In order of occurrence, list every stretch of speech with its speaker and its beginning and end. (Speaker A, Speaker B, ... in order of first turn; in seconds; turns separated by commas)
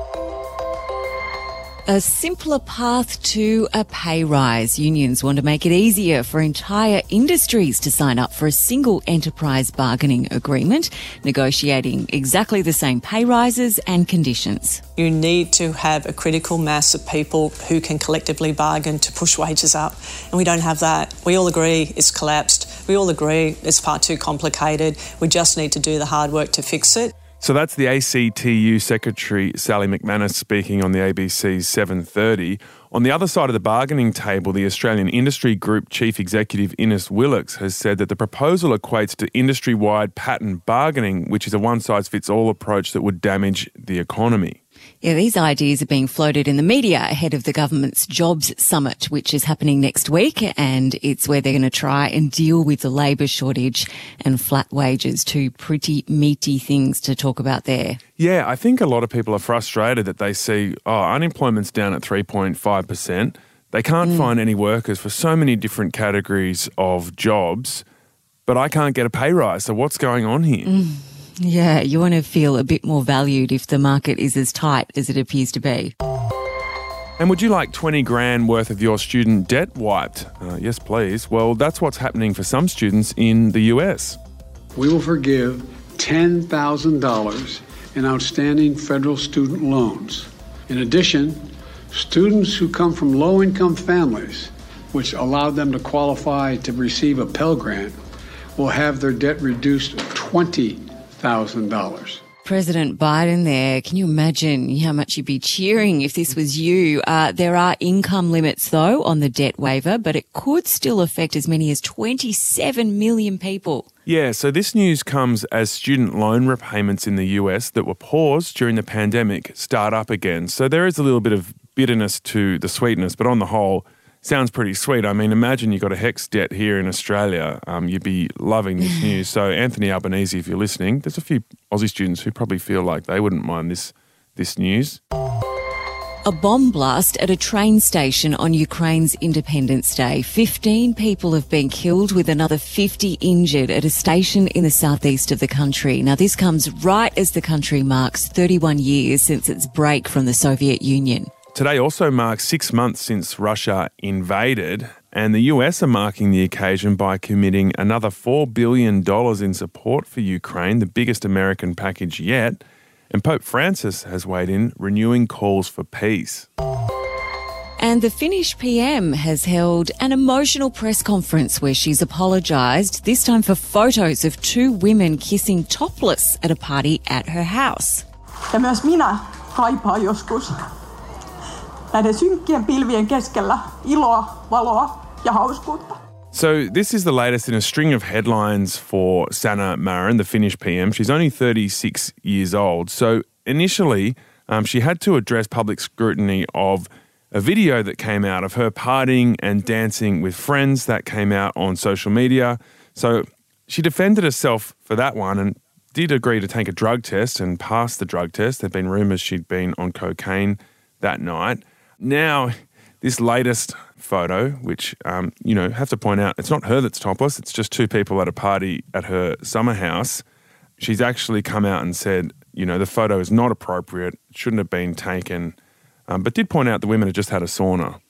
Speaker A: 1.9-14.8, Speaker B: 15.0-27.1, Speaker C: 27.4-44.6, Speaker A: 45.0-58.0, Speaker C: 58.2-67.8, Speaker A: 64.0-64.3, Speaker C: 68.5-70.7, Speaker A: 70.6-75.9, Speaker C: 77.2-84.2, Speaker D: 84.7-98.0, Speaker D: 98.5-102.2, Speaker A: 102.4-113.8, Speaker C: 114.0-135.0, Speaker A: 136.2-151.3, Speaker C: 151.5-166.5, Speaker A: 167.8-178.0, Speaker E: 178.5-180.6, Speaker E: 181.9-186.0, Speaker C: 186.3-220.2, Speaker C: 220.8-225.6, Speaker C: 226.1-228.0